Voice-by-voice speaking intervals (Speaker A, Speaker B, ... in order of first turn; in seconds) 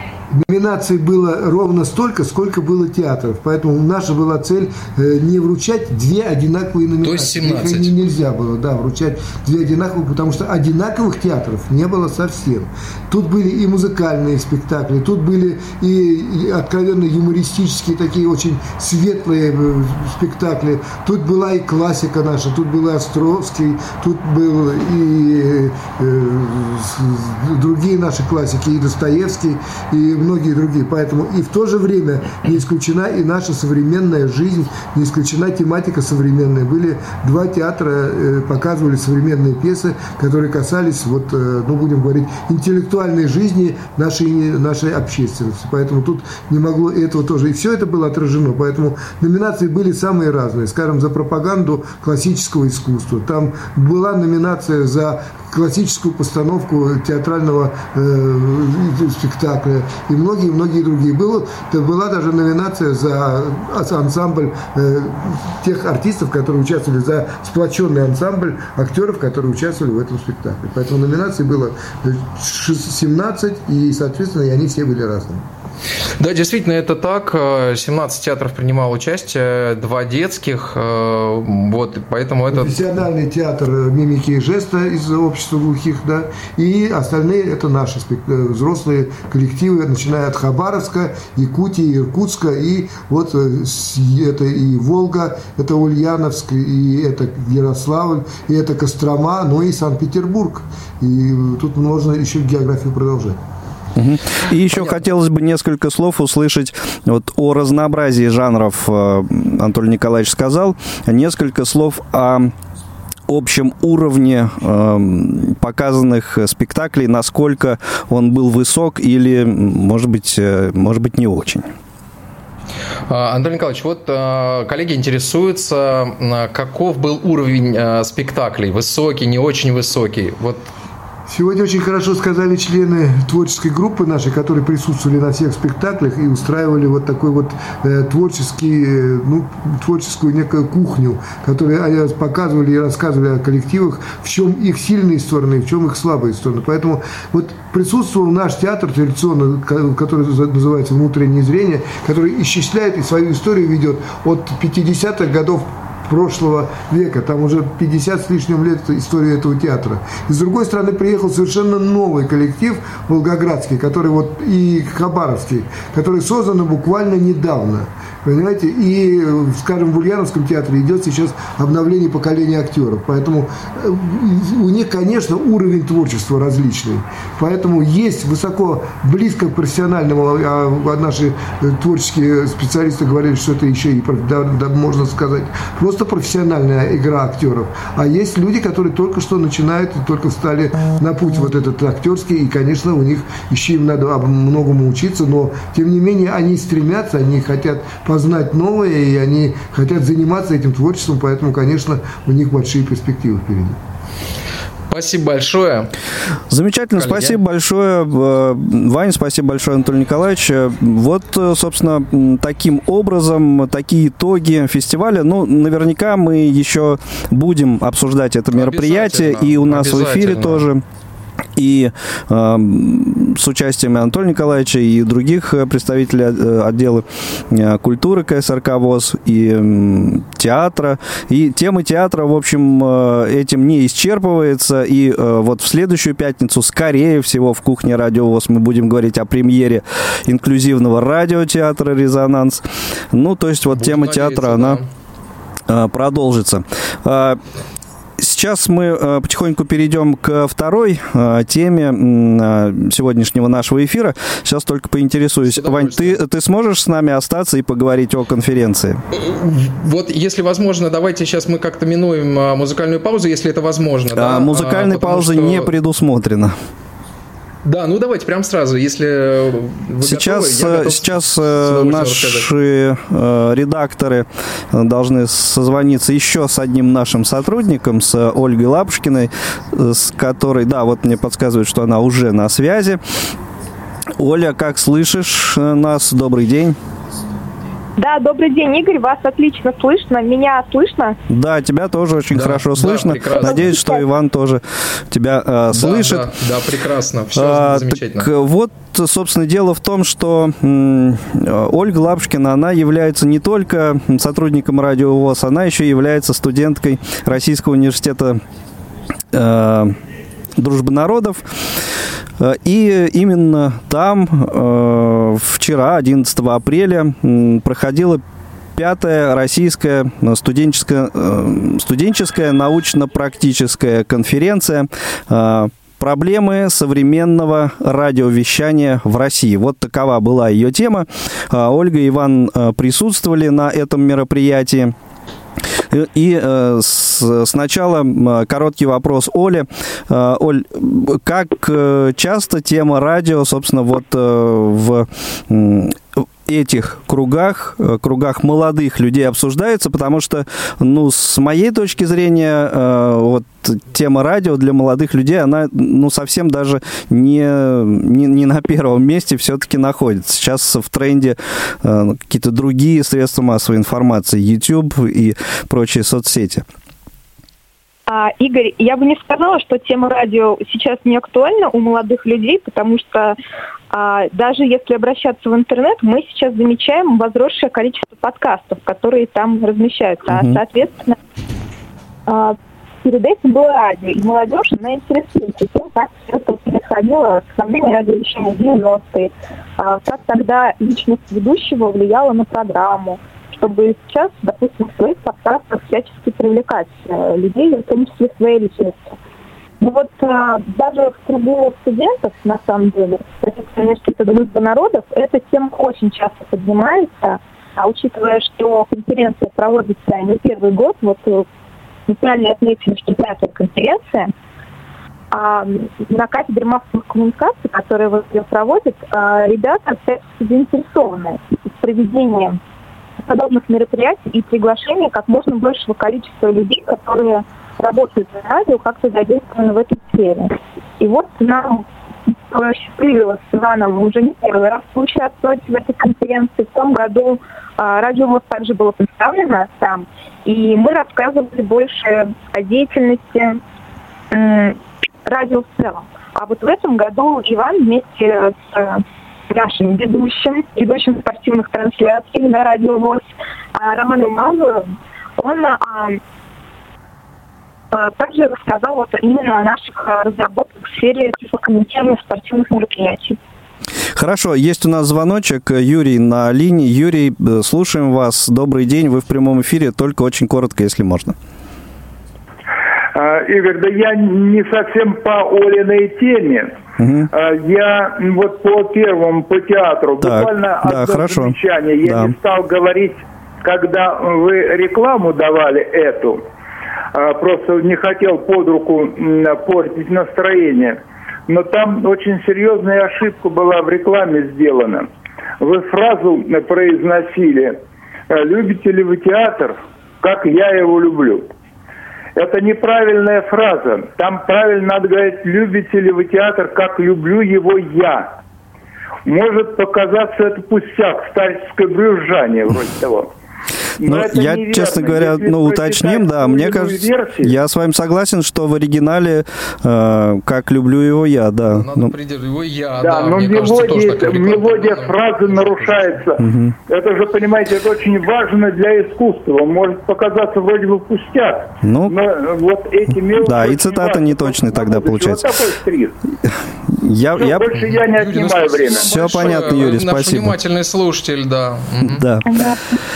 Speaker A: 0.3-75.4, 82.5-103.4, 131.3-203.8
Speaker B: 7.0-7.9, 76.2-82.9, 123.1-130.7, 204.9-205.9, 207.0-207.4, 218.5-220.7, 243.7-244.9, 255.5-256.2, 259.1-265.7, 267.6-272.5, 292.3-293.7, 295.7-298.3, 521.7-526.2, 538.1-542.2
Speaker C: 103.9-112.5, 113.3-121.7, 206.5-220.8, 221.6-244.8, 245.7-247.4, 248.2-259.0, 264.1-266.5, 270.0-283.0, 284.2-286.8, 291.3-296.3, 297.3-308.4, 309.3-309.9, 310.6-311.7, 312.4-318.2, 318.8-334.9, 335.9-366.6, 380.3-380.6, 464.1-471.4, 477.0-477.3, 480.2-482.3, 514.0-522.1, 526.4-526.7, 531.8-532.2, 533.4-535.5, 536.5-537.8, 538.9-540.5, 542.0-542.6
Speaker D: 288.0-291.2, 293.6-294.0, 368.1-373.4, 373.9-381.1, 382.3-399.2, 399.8-411.4, 412.1-414.3, 415.3-422.6, 423.2-431.8, 432.5-443.6, 444.3-456.2, 457.9-463.4, 542.5-542.8
Speaker E: 473.1-476.8, 477.3-486.4, 487.1-497.8, 498.3-501.4, 502.4-508.4, 509.2-513.3, 514.0-517.5, 523.0-536.1, 537.4-539.1